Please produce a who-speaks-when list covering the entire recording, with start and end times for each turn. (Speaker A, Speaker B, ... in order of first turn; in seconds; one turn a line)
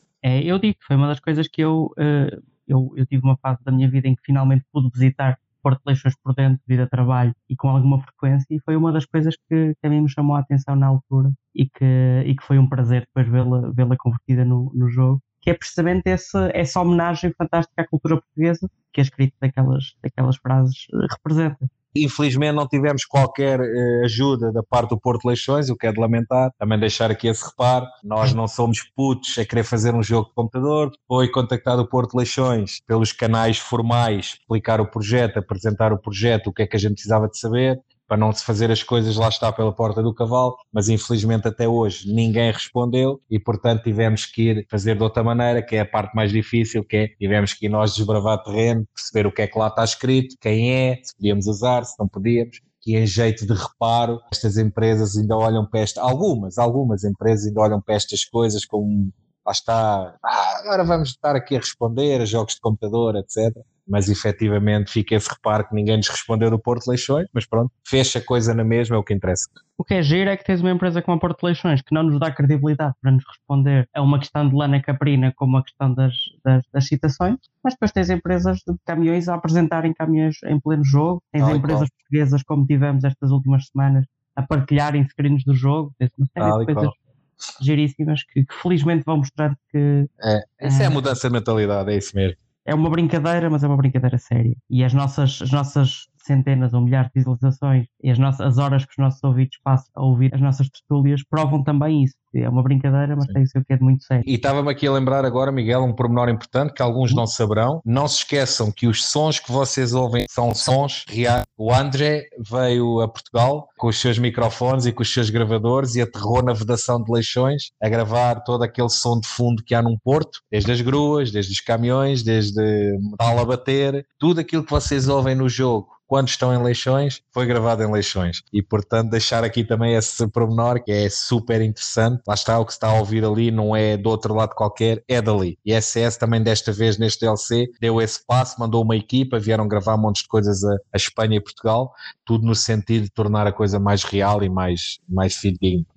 Speaker A: 0.2-21.7
Speaker B: 21.9-69.5
Speaker A: 69.8-86.9
Speaker B: 81.4-81.9
Speaker B: 86.4-86.9
Speaker A: 87.6-90.1
Speaker B: 90.2-92.4
Speaker A: 90.6-91.0
Speaker A: 92.7-104.2
Speaker B: 104.2-145.9